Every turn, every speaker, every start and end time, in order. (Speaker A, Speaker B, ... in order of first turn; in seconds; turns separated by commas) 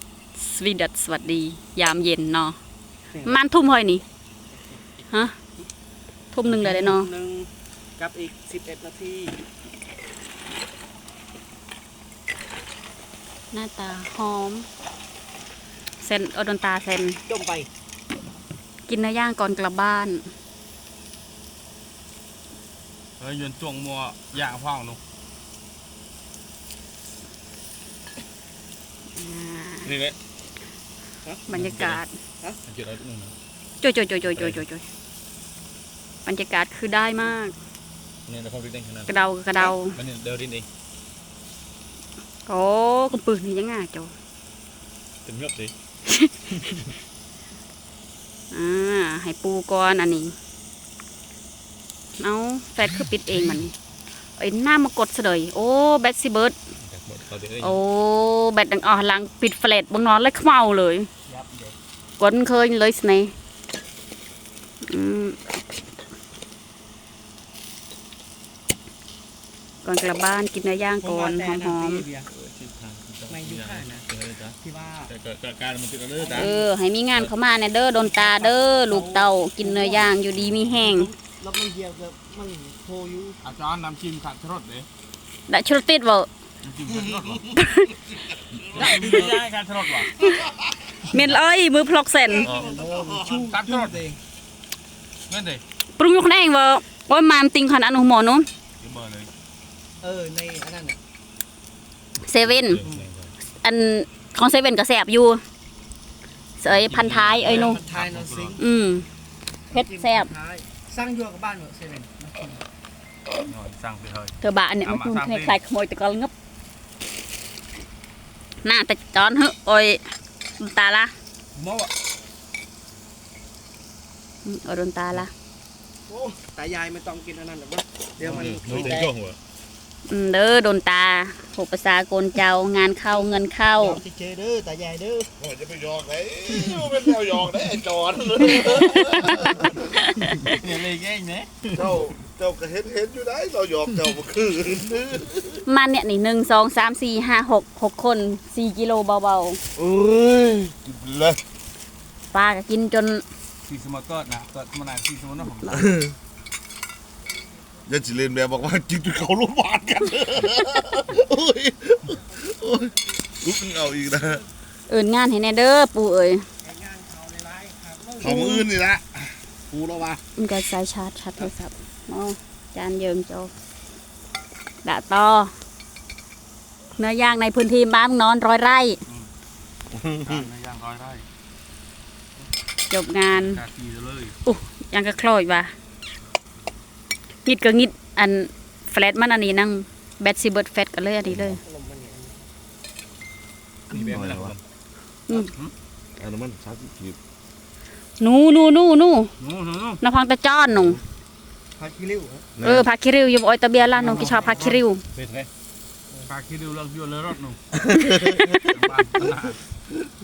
Speaker A: 0.3-2.6, Speaker B: 3.1-3.4, Speaker A: 3.2-4.0, Speaker B: 4.5-4.8, Speaker A: 6.3-7.1, Speaker B: 6.5-9.4, Speaker A: 13.5-14.7, Speaker A: 16.0-17.2, Speaker B: 17.2-17.7, Speaker A: 18.9-20.3, Speaker C: 23.2-25.0, Speaker A: 29.1-29.9, Speaker C: 29.8-30.1, Speaker A: 31.5-32.1, Speaker C: 31.5-32.0, Speaker C: 32.6-33.4, Speaker A: 33.8-34.8, Speaker C: 34.2-34.6, Speaker A: 36.2-37.5, Speaker C: 38.2-40.6, Speaker A: 39.1-40.0, Speaker A: 42.5-44.1, Speaker C: 45.2-45.7, Speaker A: 46.1-46.3, Speaker C: 46.5-46.9, Speaker A: 48.5-50.3, Speaker A: 52.2-53.7, Speaker A: 54.4-56.5, Speaker C: 56.8-57.8, Speaker A: 57.6-61.1, Speaker B: 61.2-61.7, Speaker A: 62.2-63.3, Speaker A: 64.8-65.4, Speaker A: 69.8-72.0, Speaker B: 71.0-72.3, Speaker C: 72.3-76.5, Speaker B: 73.3-74.0, Speaker B: 74.6-75.1, Speaker B: 76.2-76.7, Speaker A: 76.3-81.1, Speaker B: 78.0-80.1, Speaker C: 80.3-80.8, Speaker B: 80.8-83.4, Speaker C: 83.4-84.9, Speaker A: 85.5-86.3, Speaker C: 86.6-87.5, Speaker A: 87.5-88.1, Speaker C: 88.5-90.1, Speaker D: 88.5-89.0, Speaker B: 88.7-89.4, Speaker A: 91.0-92.5, Speaker D: 92.3-93.3, Speaker C: 92.4-92.8, Speaker B: 92.4-94.2, Speaker C: 93.3-94.0, Speaker C: 95.3-95.6, Speaker A: 96.0-98.5, Speaker C: 98.8-99.3, Speaker B: 100.0-101.0, Speaker A: 102.2-102.8, Speaker C: 102.4-103.3, Speaker A: 103.6-105.4, Speaker A: 106.6-107.8, Speaker C: 106.6-108.6, Speaker B: 107.4-108.6, Speaker A: 108.6-109.0, Speaker B: 109.7-112.6, Speaker A: 109.7-110.3, Speaker C: 113.4-115.6, Speaker A: 114.4-116.3, Speaker A: 118.6-120.0, Speaker A: 120.6-121.1, Speaker B: 121.5-121.9, Speaker A: 124.4-125.3, Speaker B: 126.3-129.1, Speaker C: 128.2-129.4, Speaker A: 130.1-134.0, Speaker B: 133.1-135.3, Speaker D: 135.4-139.8, Speaker C: 138.5-139.5, Speaker A: 139.7-140.5, Speaker C: 140.3-141.9, Speaker D: 141.7-145.6, Speaker A: 145.7-149.6, Speaker D: 149.8-151.4, Speaker A: 152.3-153.2, Speaker C: 153.6-155.9, Speaker D: 155.6-156.1, Speaker D: 157.9-164.4, Speaker A: 164.9-166.4, Speaker B: 166.6-168.5, Speaker D: 168.2-169.4, Speaker B: 169.7-170.2, Speaker A: 170.3-173.5, Speaker A: 174.8-175.5, Speaker A: 177.0-179.0, Speaker D: 179.9-180.4, Speaker C: 180.2-181.2, Speaker A: 182.9-183.6, Speaker C: 183.3-184.3, Speaker A: 184.4-185.7, Speaker A: 187.4-191.6, Speaker B: 191.4-192.4, Speaker C: 193.9-194.6, Speaker D: 193.9-194.5, Speaker C: 195.3-195.7, Speaker D: 196.2-197.2, Speaker A: 198.2-199.3, Speaker C: 199.4-200.0, Speaker A: 200.0-201.0, Speaker B: 201.8-202.5, Speaker D: 202.6-202.9, Speaker A: 202.6-205.0, Speaker B: 203.9-204.8, Speaker C: 204.0-204.5, Speaker C: 205.1-205.5, Speaker C: 206.2-207.6, Speaker C: 208.6-209.6